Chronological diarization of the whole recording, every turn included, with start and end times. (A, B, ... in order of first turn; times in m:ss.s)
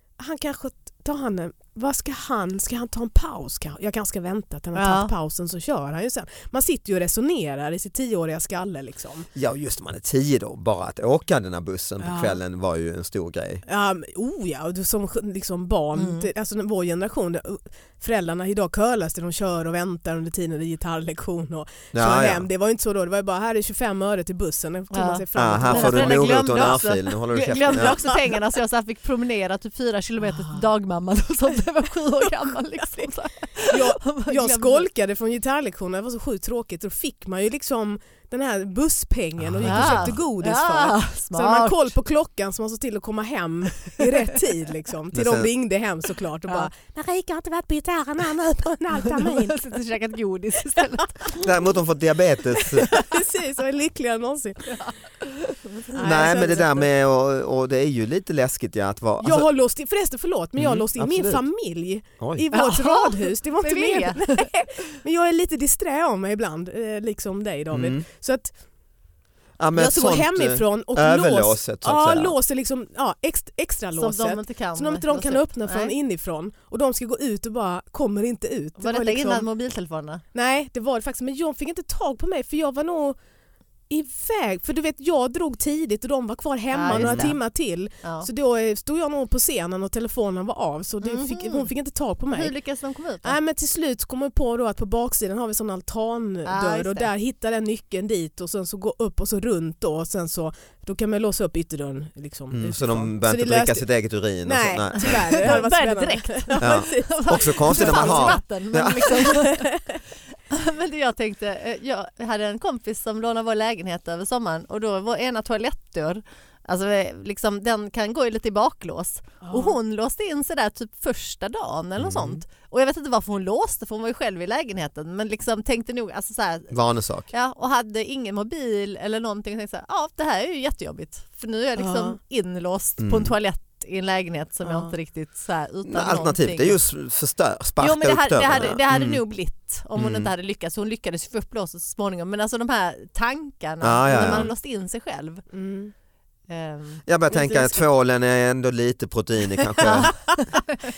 0:00.2-0:09.3 A
0:04.7-0:05.1 B
0:09.3-0:13.6 C
0:12.0-0:12.4 A
0:13.6-0:26.8 A
0:15.9-0:16.3 B
0:21.9-0:22.5 C
0:24.9-0:34.9 B
0:25.3-0:28.1 C
0:27.7-0:28.2 A
0:30.3-0:30.6 A
0:33.6-0:49.7 A
0:39.4-0:40.2 C
0:39.6-0:41.9 B
0:45.1-0:45.5 C
0:48.9-0:51.4 B
0:51.3-0:52.9 C
0:52.6-0:54.8 A
0:55.4-0:56.3 B
0:55.9-0:56.9 A
0:56.0-0:59.5 C
0:59.2-1:08.5 A
1:00.6-1:01.4 C
1:02.5-1:04.5 B
1:07.7-1:08.0 C
1:09.6-1:12.4 C
1:09.7-1:19.4 A
1:13.9-1:15.9 B
1:18.8-1:20.2 B
1:20.3-1:23.2 A
1:23.9-1:32.5 A
1:26.7-1:27.4 B
1:26.9-1:27.3 C
1:28.0-1:28.3 B
1:31.0-1:31.7 B
1:32.3-1:33.4 B
1:33.2-1:43.8 A
1:36.4-1:37.1 B
1:42.5-1:45.5 C
1:44.4-1:48.4 A
1:45.0-1:49.8 B
1:46.6-1:49.2 C
1:49.0-1:50.0 A
1:50.5-2:06.7 B
1:59.4-1:59.8 A
2:02.0-2:02.4 C
2:06.7-2:07.3 C
2:07.3-2:16.8 B
2:11.8-2:12.2 A
2:13.0-2:13.3 C
2:14.6-2:14.9 A
2:15.8-2:19.2 C
2:17.8-2:25.4 B
2:19.9-2:20.3 C
2:23.8-2:24.5 C
2:24.1-2:24.5 A
2:25.5-2:25.9 A
2:26.5-2:27.0 B
2:27.0-2:30.2 C
2:27.3-2:27.8 A
2:29.8-2:30.6 A